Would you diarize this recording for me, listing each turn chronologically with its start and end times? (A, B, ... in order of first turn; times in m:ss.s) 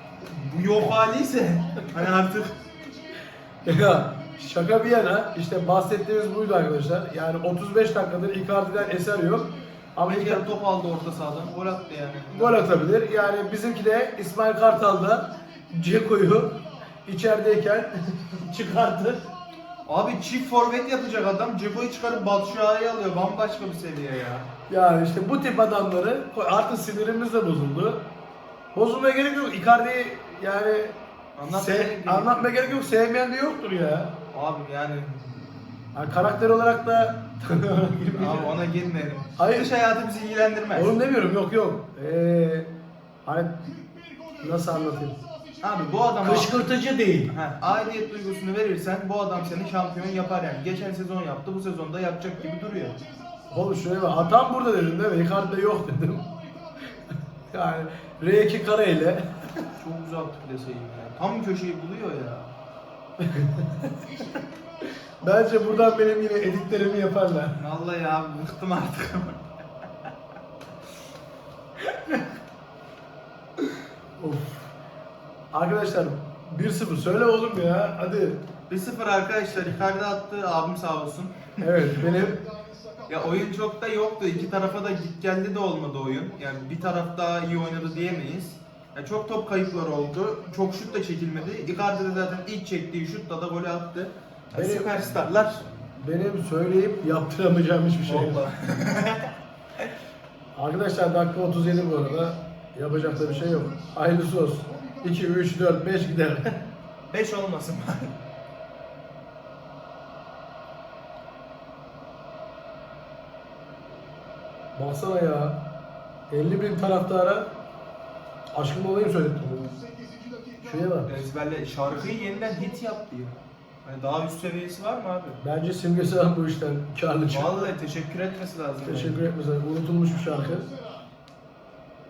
0:00.3-0:02.5 A
0:00.9-0:06.0 B
0:03.6-0:10.5 C
0:08.7-0:09.9 B
0:10.0-0:12.8 A
0:10.7-0:24.0 B
0:12.3-0:19.3 C
0:19.9-0:24.5 A
0:24.7-0:28.1 C
0:28.7-0:34.2 C
0:31.4-0:32.8 A
0:34.3-0:35.3 A
0:35.9-0:38.6 C
0:38.1-0:40.9 A
0:38.2-0:41.0 B
0:39.4-0:39.7 C
0:40.8-0:42.7 C
0:43.2-0:43.6 C
0:43.6-0:46.3 B
0:44.4-0:45.2 C
0:45.6-0:46.6 A
0:46.2-0:47.4 C
0:47.3-0:53.0 A
0:47.6-0:48.7 B
0:49.3-0:51.0 B
0:52.3-0:57.2 B
0:53.5-0:56.3 C
0:57.5-0:59.3 C
0:59.7-1:02.5 A
1:03.2-1:04.0 C
1:04.0-1:07.5 B
1:05.2-1:07.6 C
1:07.6-1:09.4 A
1:11.9-1:12.2 C
1:14.2-1:14.7 C
1:15.5-1:18.4 C
1:18.7-1:22.0 A
1:21.6-1:22.4 C
1:21.8-1:25.2 B
1:23.1-1:35.7 A
1:26.0-1:28.4 B
1:29.5-1:32.5 B
1:34.5-1:35.4 C
1:35.9-1:38.5 C
1:38.0-1:39.9 A
1:40.6-1:46.6 C
1:41.1-1:45.6 B
1:47.1-1:48.2 A
1:54.8-1:55.6 C
1:56.3-1:57.5 C
1:58.5-1:59.7 C
1:59.4-2:01.1 B
2:00.6-2:01.3 C
2:01.1-2:05.4 A
2:01.8-2:03.0 B
2:05.4-2:07.7 C
2:07.3-2:09.3 A
2:08.8-2:10.7 C
2:10.1-2:11.1 B